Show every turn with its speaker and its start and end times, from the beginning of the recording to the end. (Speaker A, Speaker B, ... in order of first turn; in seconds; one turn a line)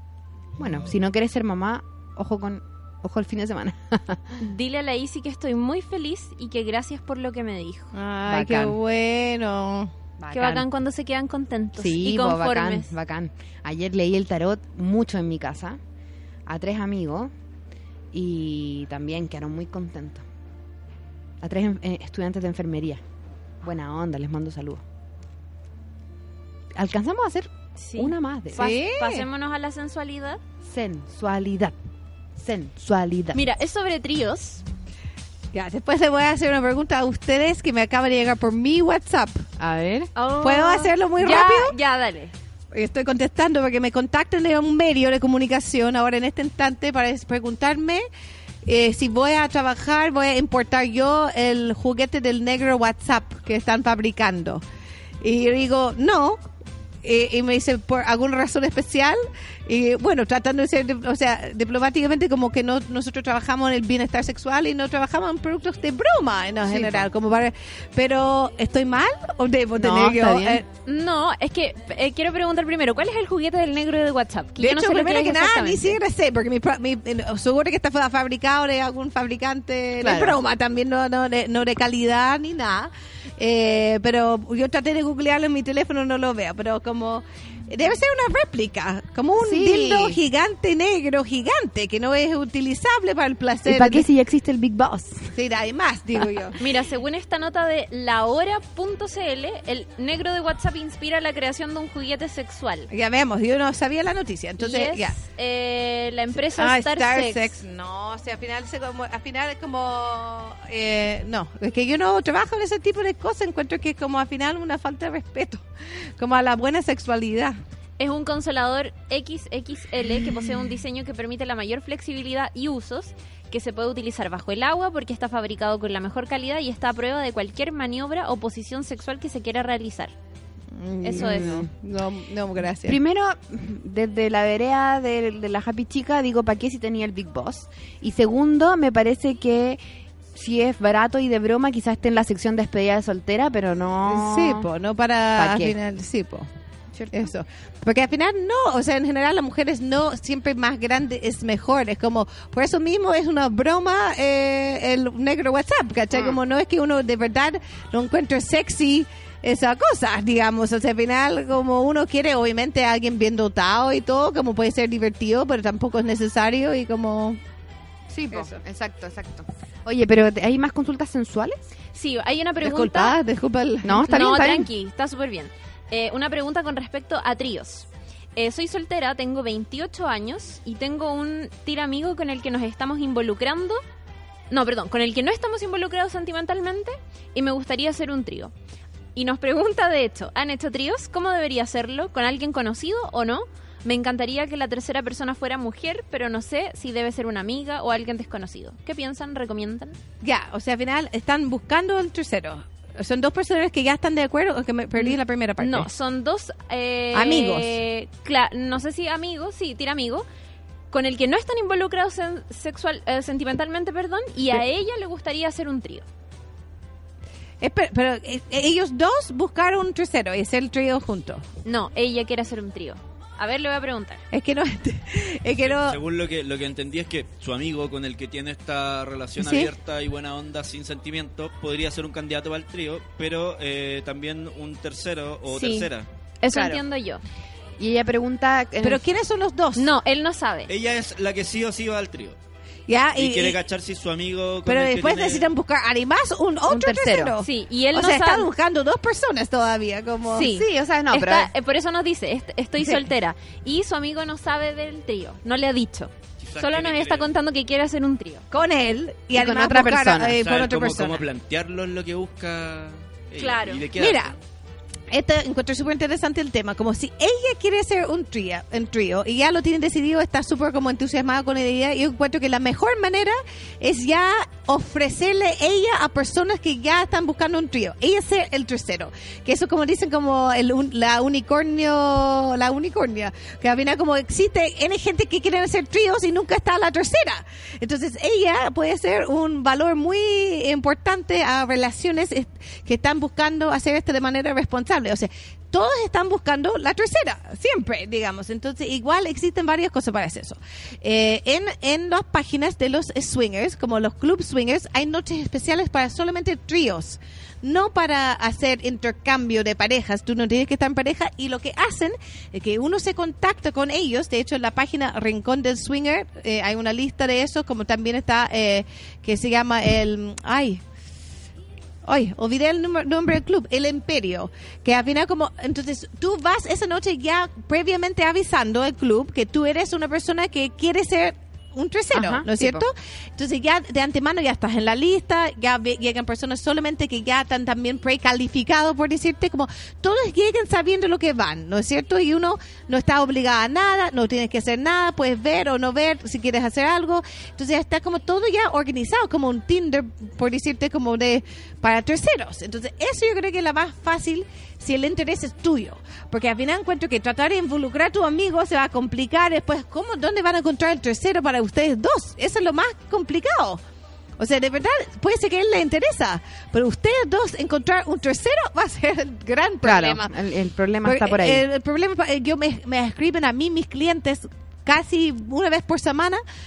Speaker A: 0.6-4.2
Speaker B: 4.4-7.9
Speaker C: 7.9-9.9
Speaker A: 8.3-8.8
Speaker A: 10.2-10.7
Speaker B: 10.3-12.9
Speaker A: 11.8-15.8
Speaker A: 16.5-17.3
Speaker A: 18.1-20.2
Speaker A: 21.4-23.0
Speaker A: 23.6-24.8
Speaker A: 26.8-28.6
Speaker B: 27.8-30.4
Speaker C: 28.6-29.3
Speaker A: 30.6-31.8
Speaker A: 32.4-33.4
Speaker B: 33.3-34.6
Speaker C: 35.5-39.5
Speaker A: 39.6-40.1
Speaker B: 40.2-42.3
Speaker C: 40.4-41.7
Speaker C: 42.7-48.0
Speaker C: 48.7-54.6
Speaker C: 55.2-56.4
Speaker C: 57.0-70.7
Speaker A: 66.7-67.1
Speaker A: 69.8-70.6
Speaker B: 70.8-76.0
Speaker C: 74.6-94.0
Speaker A: 80.0-80.4
Speaker A: 89.4-90.2
Speaker A: 93.7-95.3
Speaker C: 95.3-96.6
Speaker B: 96.6-102.9
Speaker C: 102.9-105.2
Speaker B: 104.6-107.6
Speaker C: 106.6-115.6
Speaker C: 116.2-117.6
Speaker B: 118.0-130.1
Speaker C: 130.8-133.0
Speaker B: 131.0-131.5
Speaker A: 131.1-131.7
Speaker A: 132.8-139.8
Speaker A: 140.3-144.7
Speaker C: 144.1-146.5
Speaker A: 145.4-145.8
Speaker C: 147.1-167.4
Speaker A: 156.1-156.4
Speaker A: 168.1-171.7
Speaker B: 171.9-173.2
Speaker C: 172.6-173.9
Speaker A: 173.8-174.7
Speaker B: 174.0-183.8
Speaker B: 184.5-188.5
Speaker B: 189.2-200.0
Speaker C: 200.2-205.9
Speaker B: 205.0-210.3
Speaker C: 207.1-207.8
Speaker B: 210.9-216.1
Speaker C: 217.6-221.4
Speaker B: 221.7-224.2
Speaker C: 224.3-226.0
Speaker D: 225.6-236.1
Speaker C: 229.4-229.7
Speaker B: 235.5-235.9
Speaker B: 236.4-237.2
Speaker A: 236.5-236.8
Speaker A: 237.8-239.0
Speaker C: 238.8-239.9
Speaker B: 239.8-240.7
Speaker D: 240.7-242.4
Speaker C: 242.9-243.6
Speaker D: 243.2-245.5
Speaker C: 244.7-250.5
Speaker A: 246.7-247.3
Speaker B: 247.4-248.5
Speaker B: 250.3-258.4
Speaker A: 250.4-251.5
Speaker C: 252.8-253.1
Speaker D: 256.4-257.3
Speaker C: 258.5-261.2
Speaker A: 259.3-260.4
Speaker D: 260.4-264.4
Speaker B: 263.4-263.9
Speaker C: 264.0-264.4
Speaker C: 265.1-320.8
Speaker C: 322.1-363.8
Speaker A: 332.1-332.9
Speaker C: 364.4-370.4
Speaker A: 369.8-371.6
Speaker C: 371.0-376.4